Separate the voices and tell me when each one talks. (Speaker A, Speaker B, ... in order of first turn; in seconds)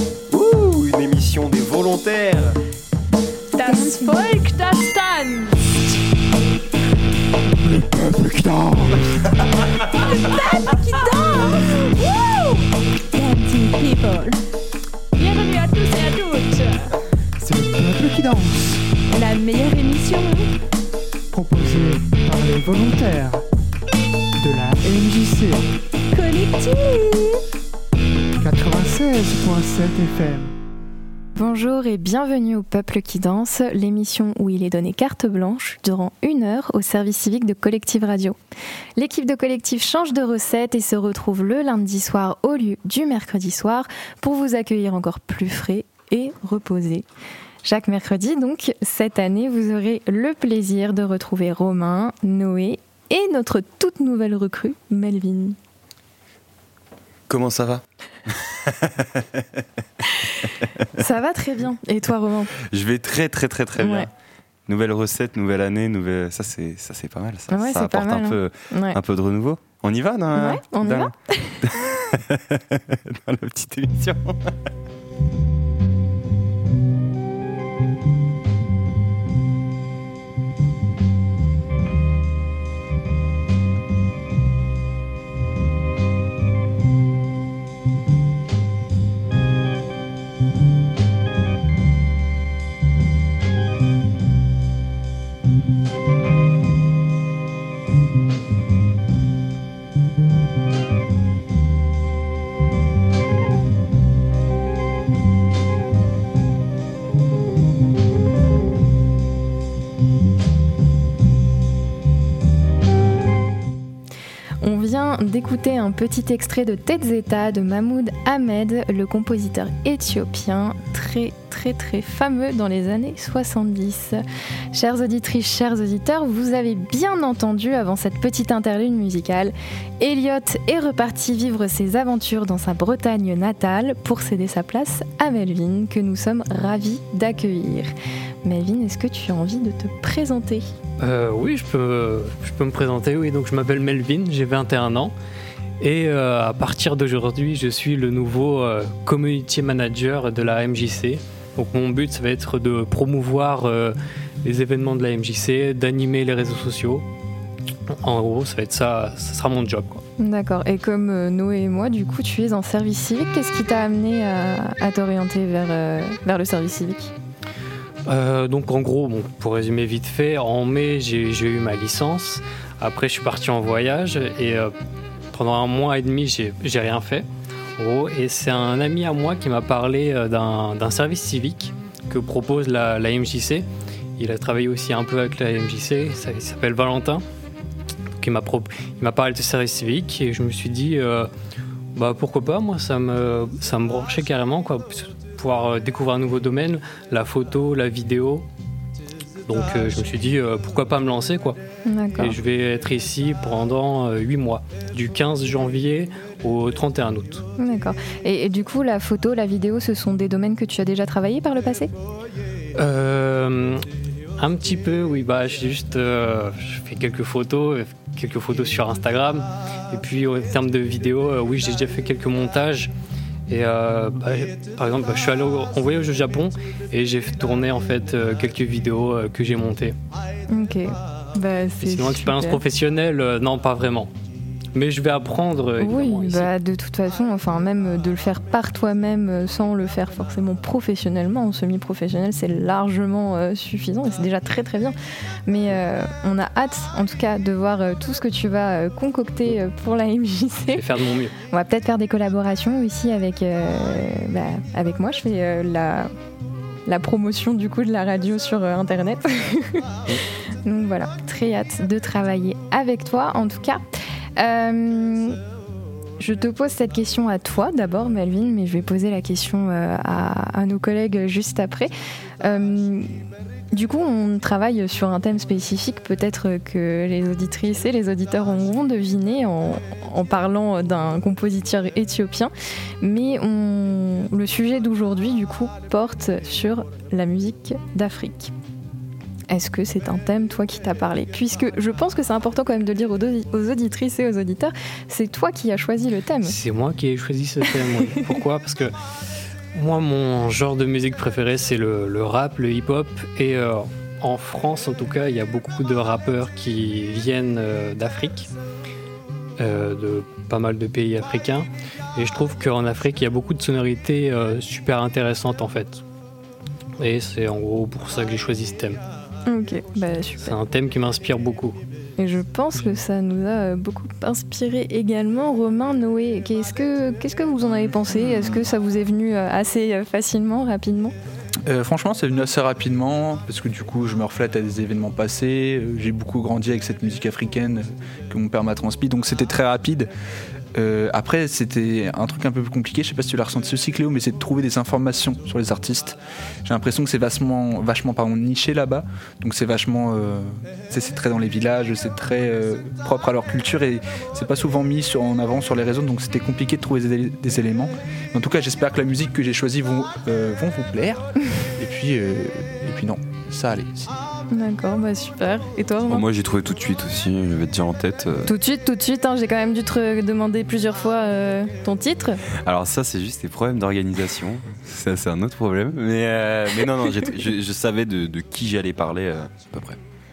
Speaker A: 0.3-2.6, 57.3-59.6, 60.2-60.9, 62.7-64.1, 64.7-71.1, 71.6-74.5, 366.1-368.5, 372.6-380.0
Speaker B: 3.5-5.9, 10.0-12.7, 15.1-17.0, 26.2-27.2
Speaker C: 3.6-4.3, 31.4-38.4, 39.0-47.1, 47.6-55.6, 61.0-62.5, 63.8-64.1, 67.5-69.0, 70.3-71.7, 114.6-124.2, 124.7-137.9, 138.4-140.7, 160.2-167.1, 201.8-202.4, 207.6-211.9, 230.5-232.6, 235.8-244.9, 245.5-250.8, 251.5-256.1, 256.9-260.0, 260.6-263.8, 264.4-265.4, 266.2-273.1, 273.7-288.5, 289.5-296.6, 319.5-320.6, 322.2-331.1, 364.5-366.2, 368.4-372.4
Speaker D: 7.6-9.1, 17.4-18.9, 21.3-23.4, 24.4-25.7, 28.4-30.5
Speaker E: 141.0-145.1, 145.8-157.1, 157.9-160.0, 168.1-174.7, 175.3-187.2, 188.2-191.3, 191.9-198.5, 199.4-201.6, 202.2-207.5, 212.8-213.8, 214.4-222.9, 223.5-230.0, 231.8-234.1, 234.7-236.5, 250.7-251.3, 296.4-298.9, 299.7-308.5, 309.6-316.0, 317.0-319.0, 320.4-321.8
Speaker F: 331.7-340.1, 340.7-364.2